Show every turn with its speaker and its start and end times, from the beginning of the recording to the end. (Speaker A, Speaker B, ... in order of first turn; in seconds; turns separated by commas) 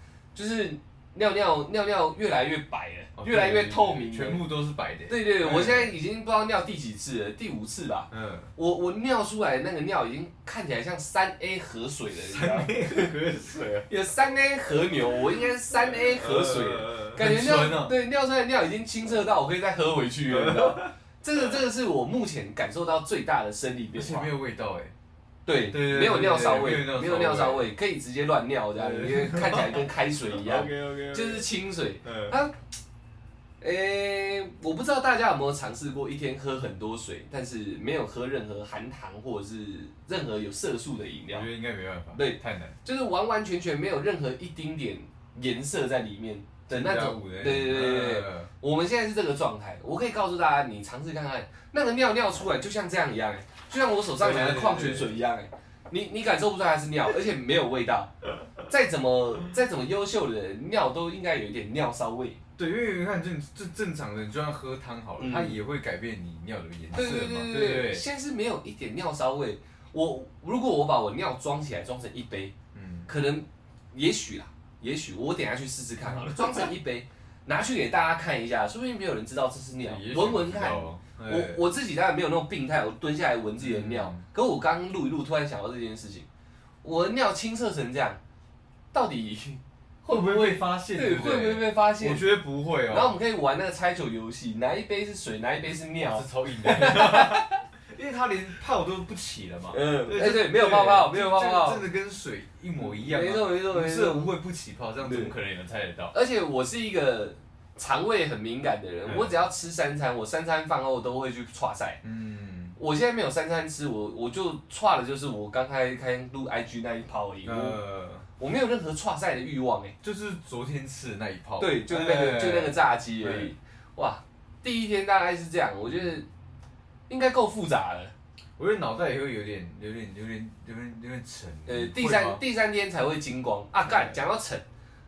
Speaker A: 0.3-4.4, Speaker B: 3.1-5.9, Speaker A: 5.1-13.1, Speaker B: 8.1-8.5, Speaker B: 12.1-13.9, Speaker A: 13.9-24.3, Speaker B: 15.0-17.9, Speaker B: 20.3-20.9, Speaker B: 23.9-24.9, Speaker A: 25.4-32.5, Speaker B: 25.7-27.7, Speaker B: 28.8-31.5, Speaker B: 32.0-32.4, Speaker A: 33.6-41.5, Speaker B: 41.3-42.8, Speaker A: 42.1-58.1, Speaker B: 46.7-48.5, Speaker B: 54.2-55.1, Speaker A: 58.6-62.4, Speaker B: 62.6-68.0, Speaker A: 65.2-65.6, Speaker A: 66.9-72.5, Speaker B: 72.7-73.1, Speaker A: 73.1-86.3, Speaker B: 76.0-76.7, Speaker B: 79.8-81.6, Speaker B: 83.6-84.2, Speaker A: 86.8-88.2, Speaker A: 88.9-92.2, Speaker B: 90.1-93.1, Speaker A: 92.9-97.5, Speaker B: 96.0-106.1, Speaker A: 99.7-101.8, Speaker A: 102.8-104.3, Speaker A: 105.0-105.3, Speaker A: 106.1-112.0, Speaker B: 109.0-109.4, Speaker B: 112.0-112.8, Speaker A: 112.8-117.8, Speaker B: 117.4-118.2, Speaker A: 118.4-119.9, Speaker B: 120.0-123.5, Speaker A: 121.6-126.3, Speaker A: 127.1-128.1, Speaker B: 128.6-132.4, Speaker A: 131.7-134.6, Speaker B: 133.8-134.2